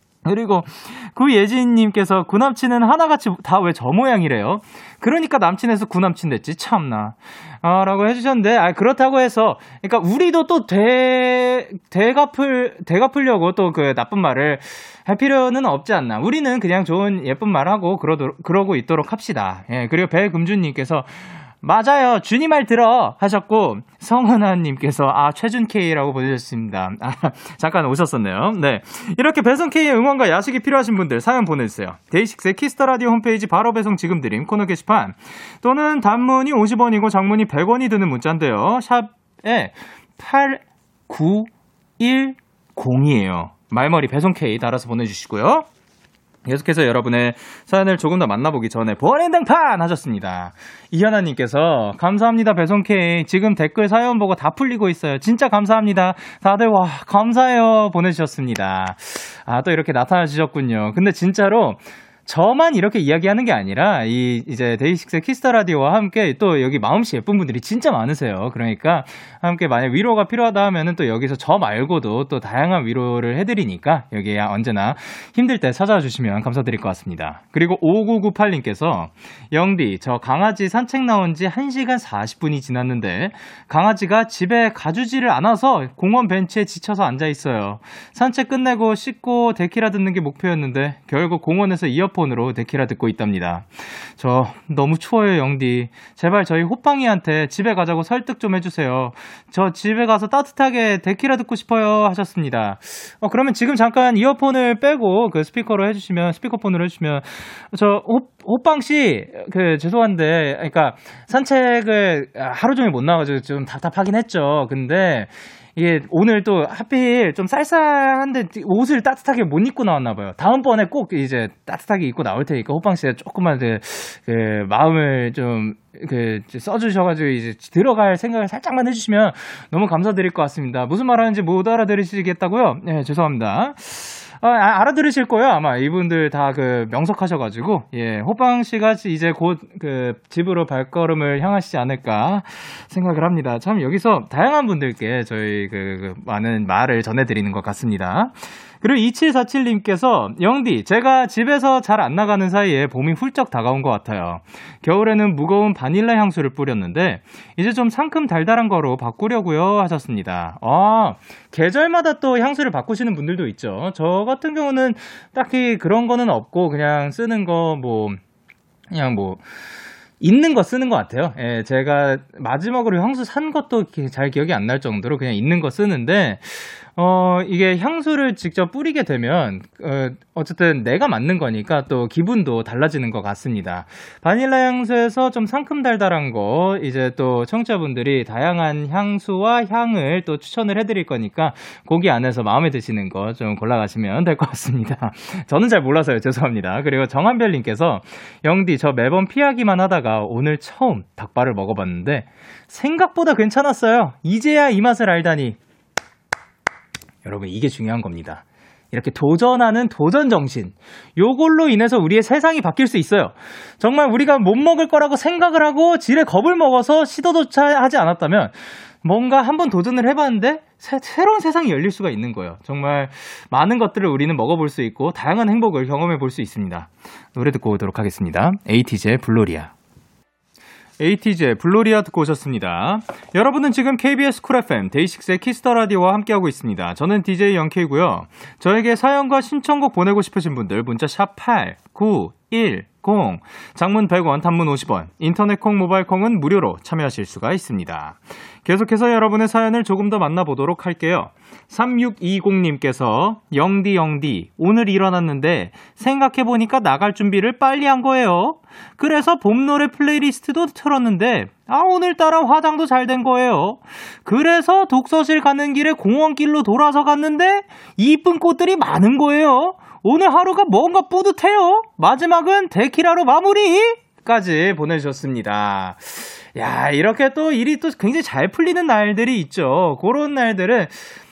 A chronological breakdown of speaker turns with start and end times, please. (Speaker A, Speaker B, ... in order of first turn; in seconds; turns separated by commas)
Speaker A: 0.2-45.7, Speaker A: 46.5-168.2, Speaker A: 168.9-169.4, Speaker A: 170.2-205.6, Speaker A: 207.2-229.7, Speaker A: 231.0-281.1